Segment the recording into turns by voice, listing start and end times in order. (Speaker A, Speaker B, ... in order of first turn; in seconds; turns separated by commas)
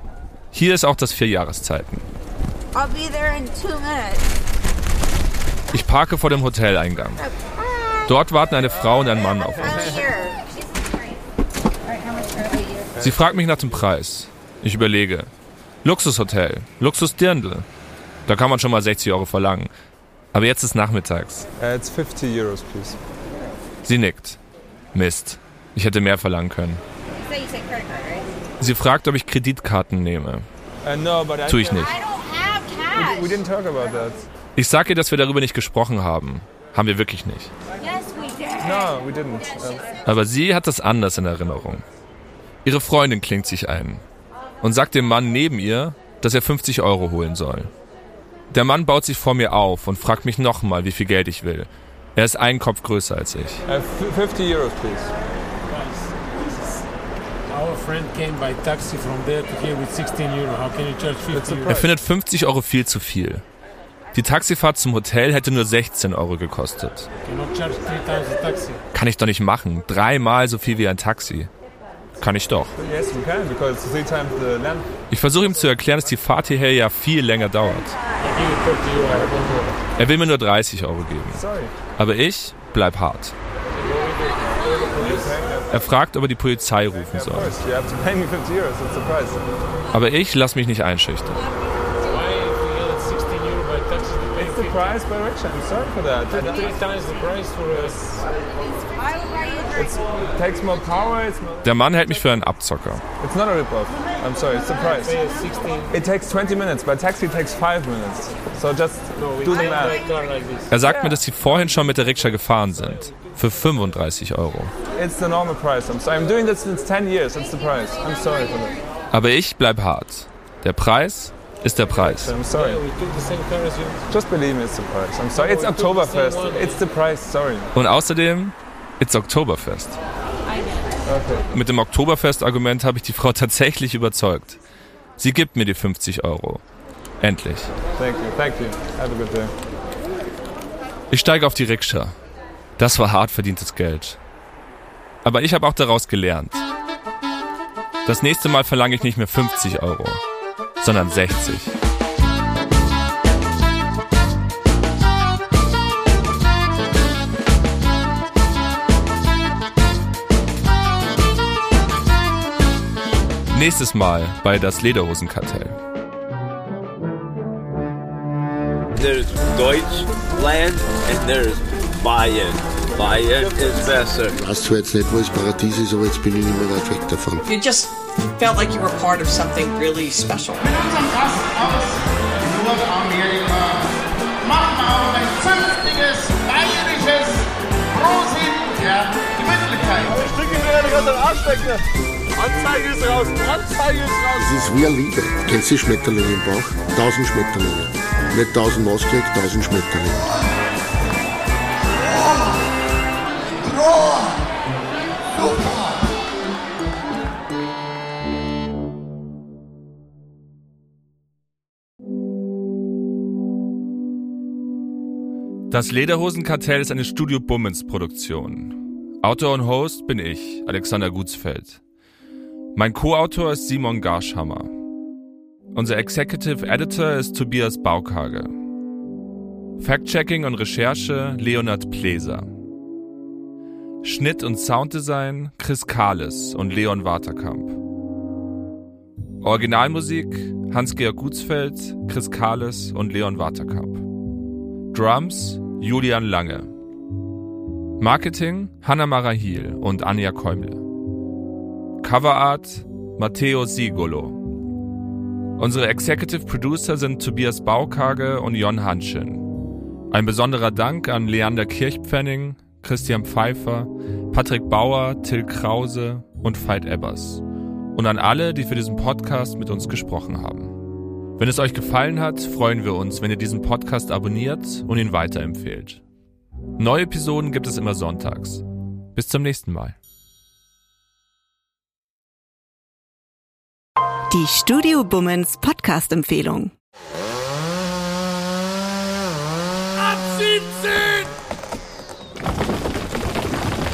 Speaker A: 0.5-2.1, Speaker B: 2.7-4.3, Speaker A: 5.7-7.2, Speaker B: 7.2-8.2, Speaker A: 8.1-9.9, Speaker B: 8.9-11.2, Speaker C: 9.6-10.0, Speaker B: 11.8-12.9, Speaker C: 12.9-13.8, Speaker A: 13.0-15.3, Speaker A: 15.8-17.6, Speaker A: 18.3-19.7, Speaker A: 20.3-21.4, Speaker C: 21.6-23.0, Speaker A: 23.8-24.4, Speaker A: 24.9-26.8, Speaker B: 27.2-28.3, Speaker A: 28.6-30.4, Speaker C: 30.8-32.0, Speaker A: 31.5-31.9, Speaker B: 31.7-33.4, Speaker C: 32.9-34.3, Speaker A: 34.5-37.5, Speaker B: 37.8-40.1, Speaker C: 38.6-39.9, Speaker A: 40.0-41.8, Speaker A: 42.6-44.0, Speaker A: 44.6-47.7, Speaker A: 48.5-53.6, Speaker C: 53.6-55.1, Speaker D: 55.7-56.8, Speaker D: 57.5-61.9, Speaker C: 61.3-61.9, Speaker A: 61.6-63.4, Speaker A: 64.1-67.1, Speaker D: 67.2-68.8, Speaker A: 68.9-71.5, Speaker A: 72.2-72.8, Speaker C: 72.8-74.9, Speaker A: 75.1-78.0, Speaker D: 78.2-79.8, Speaker A: 80.0-83.3, Speaker C: 81.3-81.7, Speaker D: 83.7-85.4, Speaker C: 84.9-85.8, Speaker A: 85.7-87.6, Speaker C: 87.0-89.4, Speaker A: 89.9-91.5, Speaker D: 92.0-95.0, Speaker C: 94.3-96.8, Speaker B: 96.3-96.7, Speaker D: 96.3-98.2, Speaker C: 97.7-98.2, Speaker B: 98.5-100.3, Speaker C: 99.7-101.7, Speaker A: 101.6-103.0, Speaker C: 103.2-105.2, Speaker D: 104.8-106.0, Speaker C: 105.9-110.0, Speaker D: 109.2-110.8, Speaker B: 109.5-109.9, Speaker A: 110.7-114.7, Speaker C: 110.8-111.2, Speaker C: 114.9-118.8, Speaker A: 119.1-122.3, Speaker C: 122.0-122.8, Speaker D: 122.5-124.1, Speaker C: 124.1-127.7, Speaker D: 125.3-126.9, Speaker A: 127.7-130.0, Speaker C: 131.0-131.5, Speaker A: 131.5-134.6, Speaker A: 135.2-136.6, Speaker A: 137.2-137.7, Speaker C: 137.9-139.5, Speaker A: 141.1-142.2, Speaker A: 142.8-144.2, Speaker A: 145.2-146.6, Speaker A: 148.1-150.2, Speaker A: 150.8-151.7, Speaker A: 163.5-165.8, Speaker E: 168.9-174.3, Speaker F: 174.3-177.5, Speaker G: 177.5-177.9, Speaker G: 178.4-180.6, Speaker H: 190.1-191.8, Speaker H: 192.3-194.4, Speaker F: 194.4-200.3, Speaker F: 202.2-202.5, Speaker F: 203.6-204.4, Speaker F: 205.3-206.1, Speaker A: 215.7-221.8, Speaker A: 222.7-224.7, Speaker A: 225.7-228.5, Speaker A: 229.8-232.5, Speaker A: 234.0-237.8, Speaker A: 239.4-244.0, Speaker A: 244.9-246.7, Speaker A: 248.0-250.8, Speaker A: 252.0-254.4, Speaker A: 255.6-259.4, Speaker A: 260.1-267.4, Speaker A: 267.9-270.8, Speaker A: 271.4-276.0, Speaker A: 276.8-278.6, Speaker A: 279.1-280.0, Speaker I: 284.3-286.7